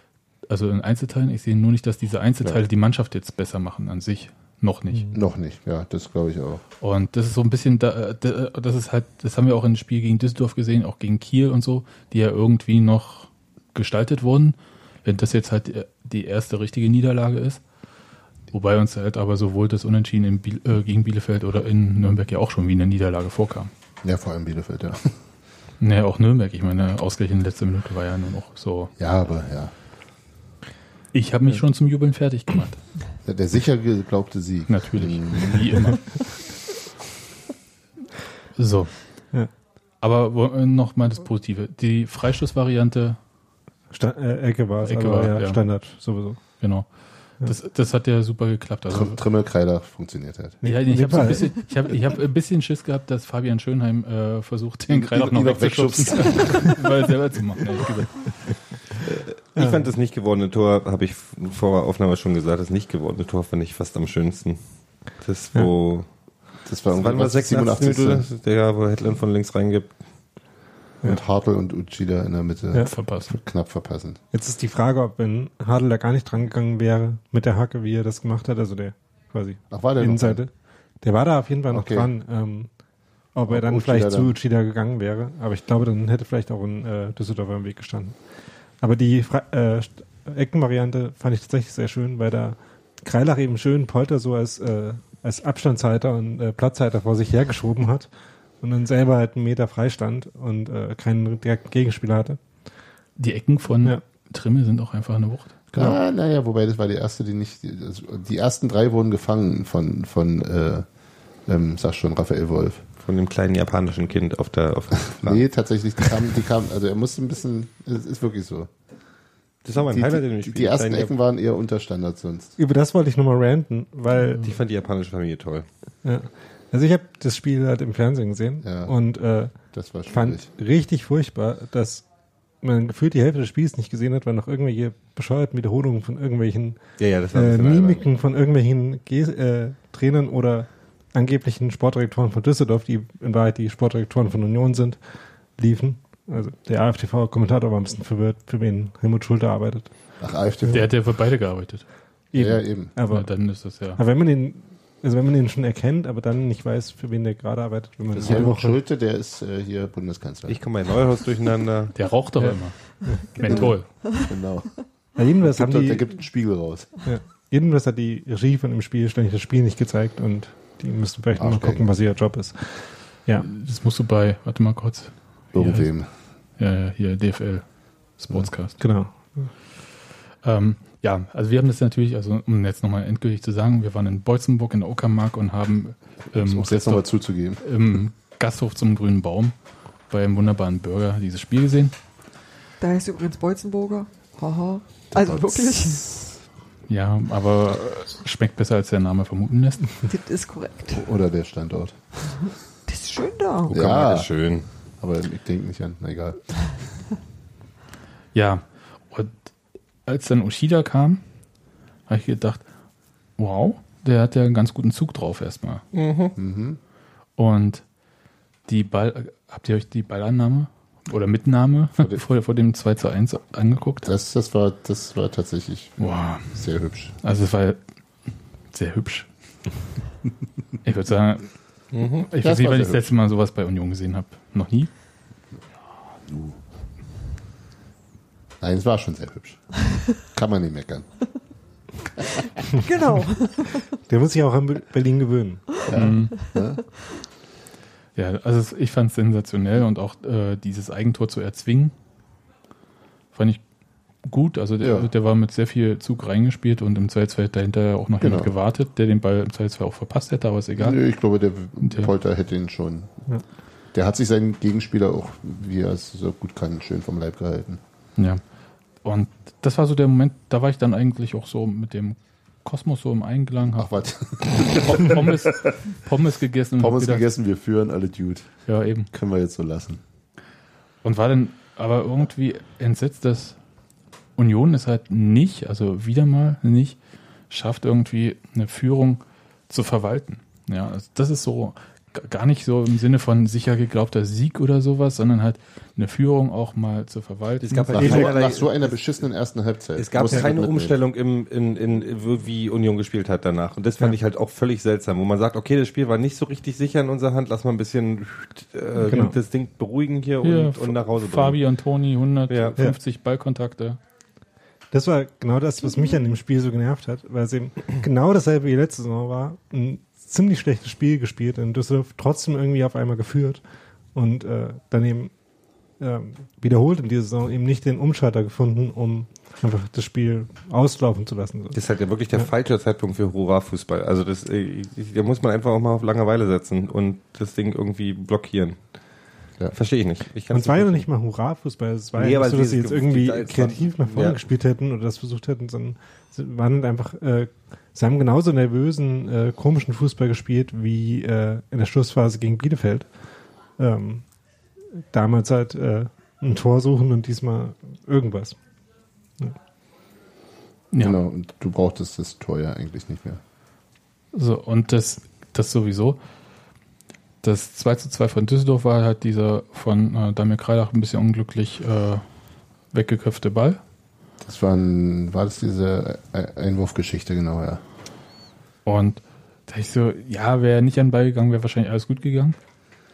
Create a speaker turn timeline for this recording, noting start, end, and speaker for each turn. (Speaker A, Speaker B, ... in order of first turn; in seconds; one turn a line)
Speaker A: 0.5-5.1
Speaker B: 5.1-6.6
Speaker A: 6.8-17.6
Speaker A: 18.5-23.7
Speaker B: 24.0-25.1
Speaker A: 25.8-28.9
Speaker B: 29.0-29.7
Speaker A: 31.1-32.8
Speaker B: 33.2-36.0
Speaker A: 34.7-36.4
Speaker A: 38.6-38.9
Speaker A: 40.0-43.2
Speaker C: 43.9-46.7
Speaker A: 44.8-45.6
Speaker A: 46.6-49.2
Speaker B: 48.9-50.6
Speaker C: 50.6-51.6
Speaker A: 50.6-58.6
Speaker B: 54.9-56.8
Speaker D: 59.5-69.9
Speaker B: 66.6-68.2
Speaker B: 71.0-74.2
Speaker A: 72.8-73.3
Speaker C: 74.3-82.7
Speaker B: 79.7-80.4
Speaker B: 81.7-82.1
Speaker C: 83.3-88.2
Speaker B: 83.5-84.3
Speaker C: 88.8-102.4
Speaker A: 103.2-105.6
Speaker C: 105.7-106.0
Speaker B: 105.7-110.9
Speaker B: 111.4-112.8
Speaker D: 113.0-115.5
Speaker B: 115.2-118.7
Speaker D: 119.6-121.1
Speaker B: 119.8-122.5
Speaker C: 122.6-124.5
Speaker D: 124.2-125.7
Speaker C: 126.0-132.1
Speaker B: 128.6-128.9
Speaker B: 129.7-130.5
Speaker C: 132.6-136.8
Speaker D: 137.0-138.1
Speaker C: 137.3-145.0
Speaker C: 145.6-149.9
Speaker B: 150.2-150.9
Speaker A: 150.7-151.9
Speaker C: 152.3-153.3
Speaker B: 152.3-152.9
Speaker A: 153.0-154.0
Speaker C: 153.9-158.8
Speaker B: 158.1-160.6
Speaker D: 160.5-161.9
Speaker A: 161.9-164.0
Speaker C: 162.4-163.6
Speaker B: 163.4-164.9
Speaker C: 165.2-166.1
Speaker B: 165.4-166.9
Speaker C: 167.1-173.5
Speaker B: 171.3-171.9
Speaker A: 173.4-176.1
Speaker B: 175.5-176.1
Speaker A: 176.6-178.8
Speaker C: 178.8-179.5
Speaker A: 180.4-189.6
Speaker B: 186.3-187.6
Speaker A: 190.1-191.9
Speaker E: 192.8-196.1
Speaker B: 195.1-196.4
Speaker A: 196.9-200.0
Speaker E: 200.1-201.0
Speaker B: 200.9-202.2
Speaker E: 202.9-203.7
Speaker D: 203.7-204.7
Speaker B: 203.7-206.5
Speaker A: 208.3-209.3
Speaker A: 210.1-211.2
Speaker A: 212.1-212.6
Speaker A: 213.4-215.8
Speaker D: 215.9-216.3
Speaker B: 216.4-216.8
Speaker A: 217.4-217.8
Speaker A: 218.7-224.1
Speaker B: 222.0-222.2
Speaker B: 224.0-227.2
Speaker A: 226.0-226.6
Speaker A: 227.2-227.8
Speaker A: 228.7-229.3
Speaker A: 230.8-234.9
Speaker D: 231.9-232.3
Speaker B: 232.4-233.1
Speaker B: 236.2-236.6
Speaker B: 238.6-241.1
Speaker E: 242.7-243.9
Speaker C: 244.1-245.7
Speaker B: 245.9-246.8
Speaker A: 245.9-246.5
Speaker E: 246.5-247.0
Speaker A: 248.2-251.9
Speaker A: 253.3-253.6
Speaker A: 254.2-261.0
Speaker B: 254.8-255.1
Speaker B: 258.2-258.5
Speaker B: 260.8-263.2
Speaker A: 261.8-262.1
Speaker B: 263.9-267.8
Speaker A: 269.0-277.3
Speaker B: 273.7-275.6
Speaker B: 276.8-280.0
Speaker A: 278.6-279.1
Speaker A: 281.0-283.6
Speaker A: 284.4-287.0
Speaker A: 287.5-298.3
Speaker D: 297.6-299.0
Speaker B: 297.9-300.9
Speaker D: 299.9-311.6
Speaker C: 309.0-309.4
Speaker A: 310.4-314.0
Speaker D: 312.5-312.8
Speaker C: 314.9-323.6
Speaker C: 324.1-325.3
Speaker C: 326.0-331.8
Speaker D: 331.7-341.1
Speaker C: 340.5-353.1
Speaker D: 342.1-344.4
Speaker C: 353.8-354.2
Speaker C: 355.0-358.6
Speaker A: 360.9-361.2
Speaker B: 361.0-363.4
Speaker A: 364.3-366.2
Speaker A: 367.4-372.2
Speaker A: 372.9-373.8
Speaker B: 374.4-377.8
Speaker A: 378.8-382.6